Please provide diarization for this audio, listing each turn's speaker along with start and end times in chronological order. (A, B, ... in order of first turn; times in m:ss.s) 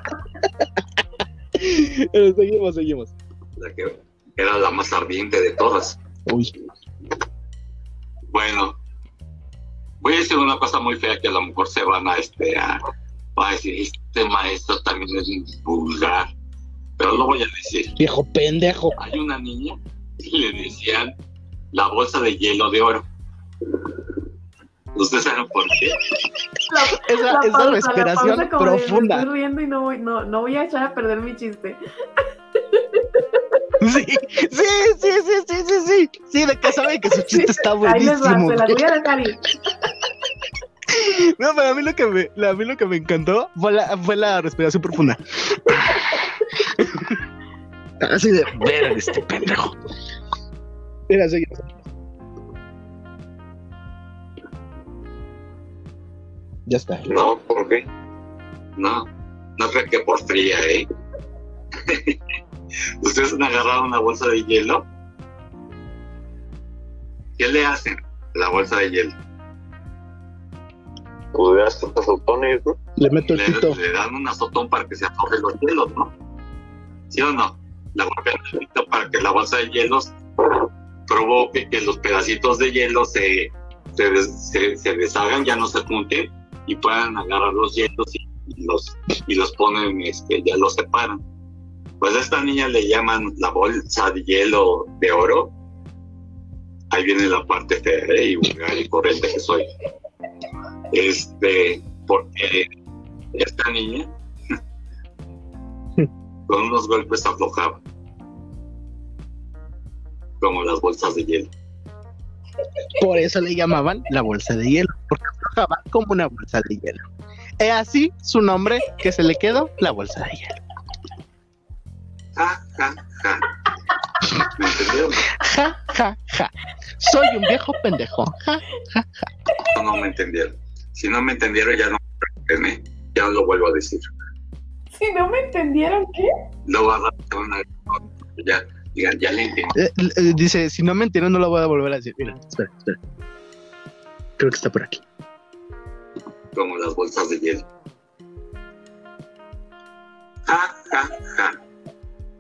0:01.5-0:03.1 A
0:03.6-0:06.0 B
0:06.3-0:06.5 A
0:08.3-0:08.8 B
0:10.0-0:12.8 B
0:13.4-0:16.3 B
0:17.0-0:18.0 B
0:18.0-0:19.0 A
0:19.0-0:21.1 B
0:21.7-0:23.0 B
0:25.0-0:26.1 B
0:26.7-0:33.2 C
0:26.9-0:29.2 A
0:33.8-0:38.9 A
0:37.1-0:39.5 C
0:40.9-0:47.2 A
0:48.0-0:49.8 A
0:51.1-0:51.7 A
0:56.6-0:57.2 A
0:57.1-0:57.7 B
0:57.2-0:57.8 D
0:58.8-1:00.9 B
1:01.8-1:02.2 B
1:03.0-1:04.8 B
1:07.4-1:09.1 B
1:11.4-1:12.8 D
1:13.0-1:13.8 A
1:13.3-1:16.1 B
1:17.1-1:31.2 B
1:32.0-1:35.5 B
1:36.9-1:39.7 B
1:40.9-1:42.7 B
1:43.3-1:44.1 B
1:46.5-1:47.8 B
1:50.4-1:51.5 B
1:53.0-1:57.0 A
1:57.6-2:00.6 A
2:02.4-2:03.5 B
2:04.4-2:05.4 B
2:05.4-2:09.2 A
2:09.7-2:14.1 B
2:14.9-2:16.3 C
2:16.6-2:19.8 B
2:19.7-2:23.0 A
2:24.4-2:25.0 A
2:26.5-2:27.6 B
2:30.5-2:31.6 B